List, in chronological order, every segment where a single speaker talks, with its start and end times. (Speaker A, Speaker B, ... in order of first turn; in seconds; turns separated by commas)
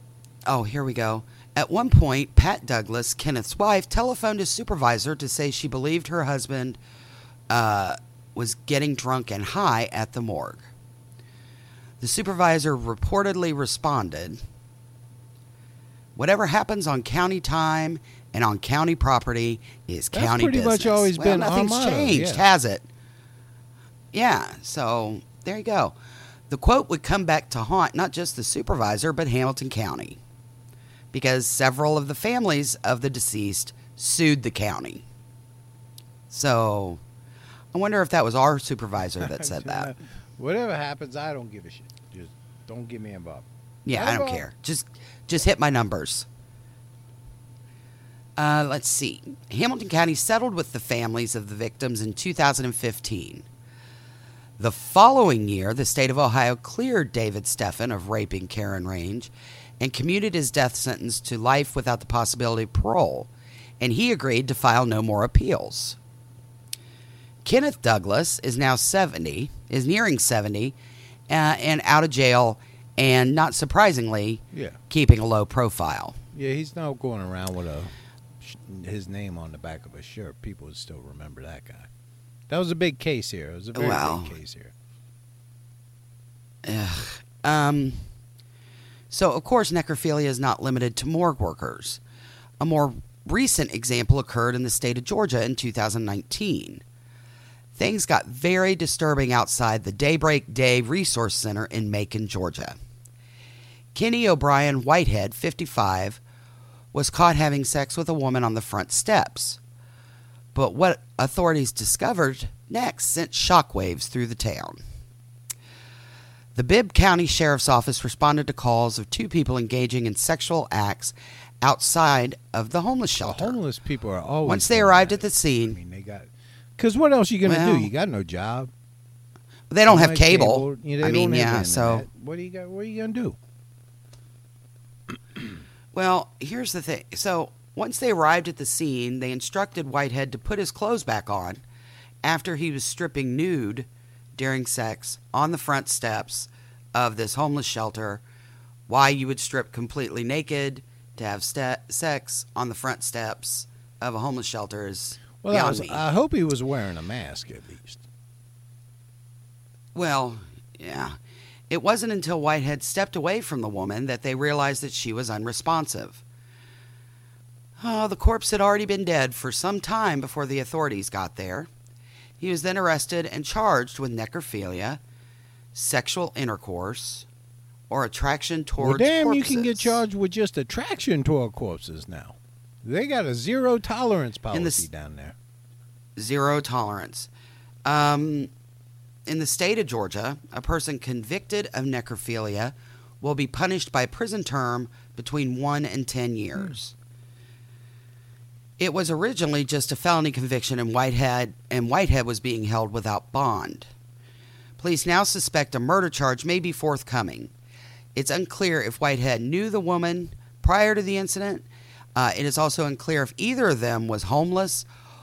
Speaker A: 0.5-6.8, Speaker A: 7.5-10.7, Speaker A: 12.0-14.4, Speaker A: 16.2-22.9, Speaker B: 20.1-22.5, Speaker A: 24.1-26.0, Speaker A: 26.5-30.2, Speaker A: 31.1-35.0, Speaker A: 36.3-37.0, Speaker A: 37.7-39.9, Speaker B: 39.2-44.5, Speaker A: 43.9-46.3, Speaker A: 48.4-53.5, Speaker A: 54.6-63.3, Speaker A: 63.8-66.0, Speaker A: 67.4-70.8, Speaker A: 71.3-76.2, Speaker B: 74.5-74.8, Speaker B: 76.3-81.9, Speaker B: 82.5-84.7, Speaker A: 83.8-84.3, Speaker A: 86.6-88.1, Speaker A: 89.1-92.0, Speaker A: 92.6-96.8, Speaker A: 97.8-102.8, Speaker A: 103.9-106.2, Speaker A: 106.9-109.6, Speaker A: 110.5-114.8, Speaker A: 116.6-123.6, Speaker B: 123.2-128.7, Speaker A: 124.5-125.8, Speaker A: 127.4-127.9, Speaker A: 129.7-132.1, Speaker B: 129.9-133.4, Speaker A: 135.9-141.6, Speaker A: 142.2-148.2, Speaker A: 148.9-156.0, Speaker B: 155.4-158.0, Speaker A: 159.9-161.2, Speaker A: 161.7-166.2, Speaker A: 167.8-171.7, Speaker A: 172.4-175.0, Speaker A: 175.7-177.3, Speaker A: 177.9-180.0, Speaker B: 178.8-185.4, Speaker A: 184.5-184.8, Speaker A: 186.2-187.3, Speaker A: 187.8-188.5, Speaker A: 189.3-196.9, Speaker A: 198.8-203.9, Speaker A: 204.8-207.5, Speaker A: 208.2-214.9